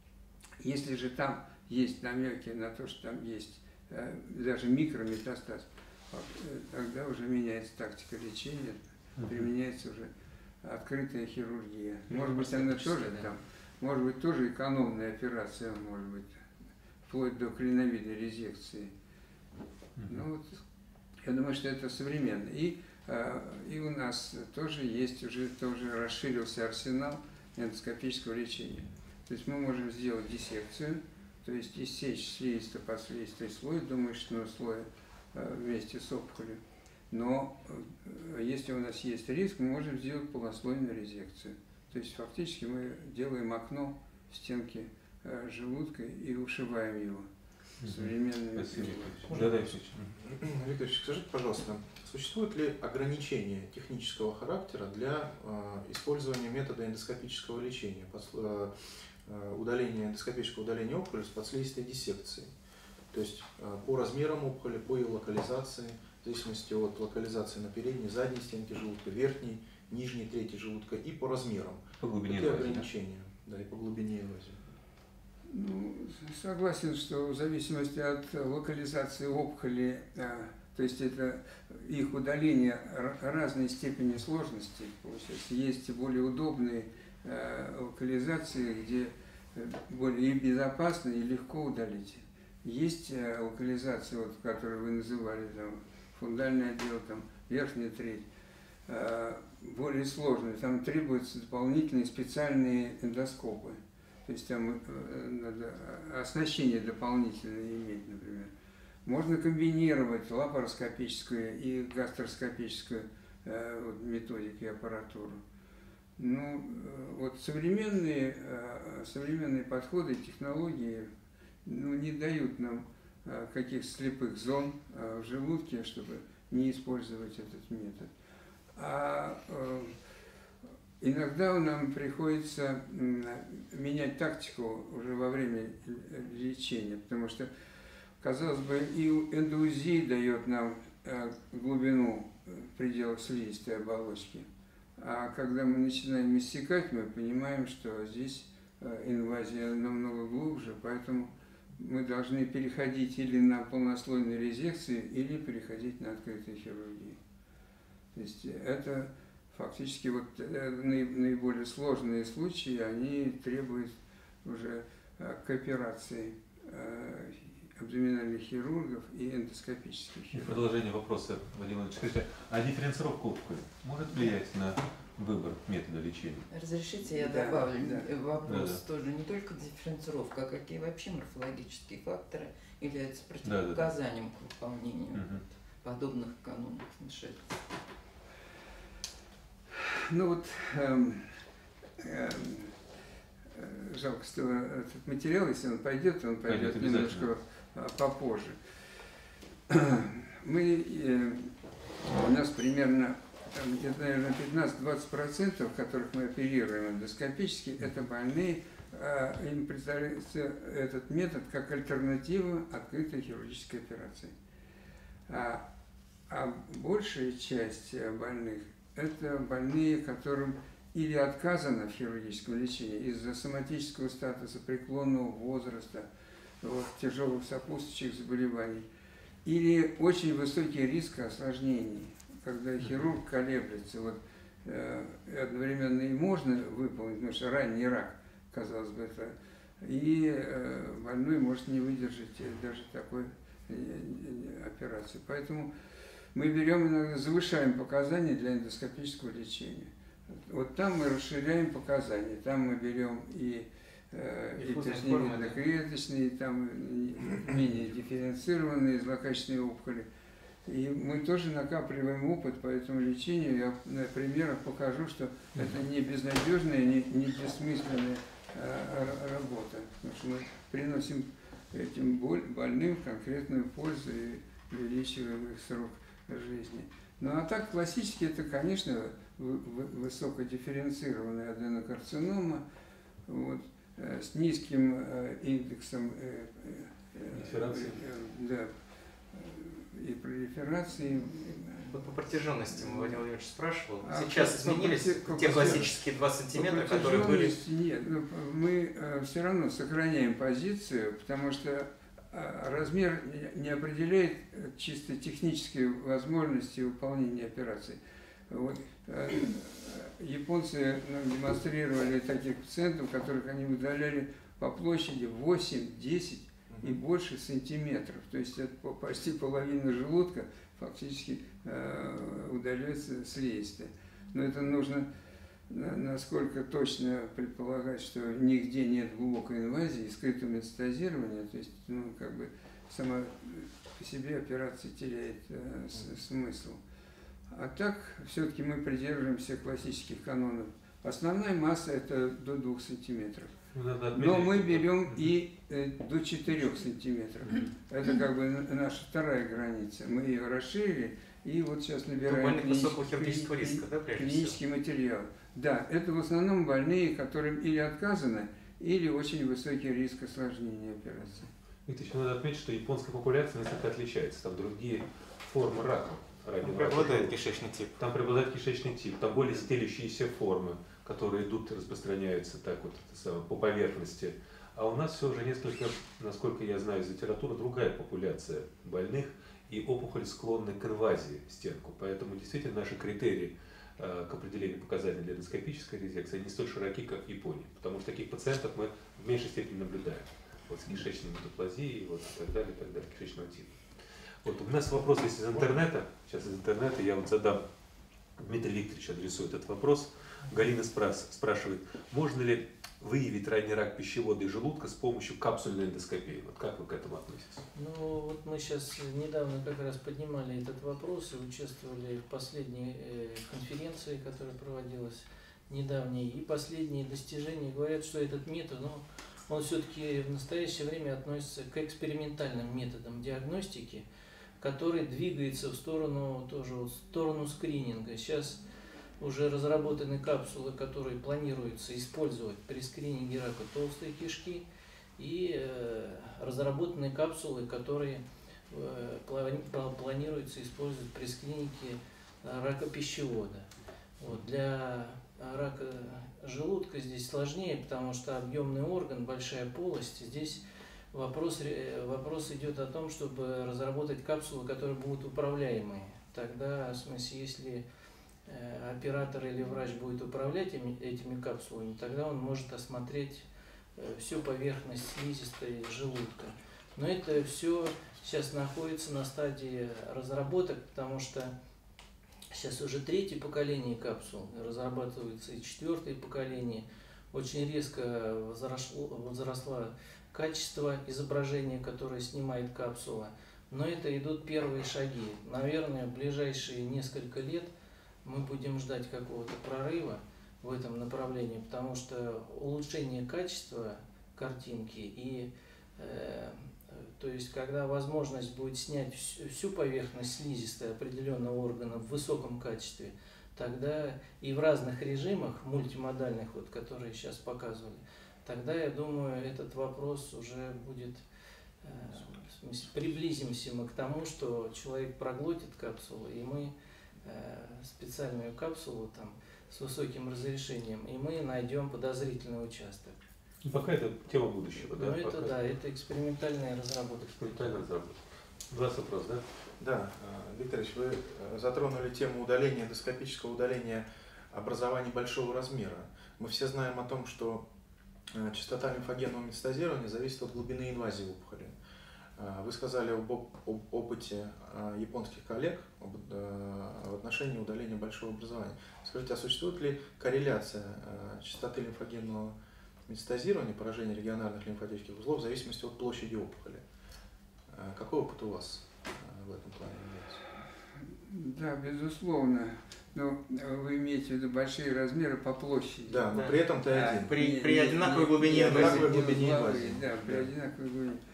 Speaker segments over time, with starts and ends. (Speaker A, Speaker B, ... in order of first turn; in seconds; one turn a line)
Speaker A: 0.6-10.1
Speaker B: 9.2-9.5
Speaker A: 10.6-16.4
Speaker C: 12.1-13.3
Speaker A: 17.1-18.9
Speaker A: 20.1-20.6
Speaker A: 21.2-47.3
Speaker B: 47.8-50.1
Speaker A: 47.8-49.5
Speaker D: 50.2-62.5
Speaker D: 63.1-74.7
Speaker B: 72.0-72.9
Speaker A: 75.5-98.3
Speaker A: 98.9-108.5
Speaker A: 109.1-115.4
Speaker A: 116.2-121.1
Speaker A: 121.7-128.1
Speaker A: 128.8-130.0
Speaker A: 131.0-137.5
Speaker A: 138.2-144.5
Speaker A: 145.0-157.2
Speaker A: 158.2-170.6
Speaker B: 170.3-176.5
Speaker E: 176.5-187.6
Speaker A: 177.1-178.1
Speaker B: 178.4-178.8
Speaker B: 183.4-183.9
Speaker B: 185.1-185.4
Speaker A: 189.8-191.3
Speaker A: 192.0-192.7
Speaker A: 193.5-198.6
Speaker B: 196.5-197.3
Speaker A: 199.7-201.5
Speaker A: 202.1-214.3
Speaker A: 215.3-215.7
Speaker A: 216.3-226.1
Speaker A: 226.6-228.9
Speaker A: 229.4-245.7
Speaker A: 246.3-260.1
Speaker C: 254.6-255.6
Speaker A: 260.7-282.6
Speaker A: 283.3-288.8
Speaker B: 287.3-288.0
Speaker A: 289.3-293.2
Speaker C: 291.9-297.6
Speaker A: 294.0-296.0
Speaker A: 296.5-308.0
Speaker A: 308.5-325.1
Speaker D: 316.7-317.0
Speaker A: 325.7-336.8
Speaker A: 337.5-343.6
Speaker B: 343.7-345.3
Speaker A: 344.1-361.5
Speaker C: 352.2-354.6
Speaker B: 361.9-367.3
Speaker C: 366.6-367.9
Speaker B: 368.0-393.8
Speaker B: 394.4-397.6
Speaker B: 398.4-407.7
Speaker F: 407.8-424.1
Speaker F: 424.6-428.6
Speaker F: 429.2-434.6
Speaker F: 435.2-443.7
Speaker F: 444.2-450.6
Speaker F: 451.1-457.9
Speaker F: 458.5-471.5
Speaker F: 472.5-487.7
Speaker F: 488.2-511.2
Speaker F: 511.8-523.2
Speaker B: 523.6-525.5
Speaker F: 524.8-527.9
Speaker B: 527.3-528.2
Speaker B: 528.7-529.4
Speaker D: 529.8-537.6
Speaker D: 538.3-541.7
Speaker D: 542.4-552.5
Speaker D: 553.1-556.8
Speaker D: 557.7-560.4
Speaker A: 561.2-566.3
Speaker D: 566.0-567.4
Speaker C: 566.3-569.3
Speaker A: 566.9-571.2
Speaker D: 568.3-570.5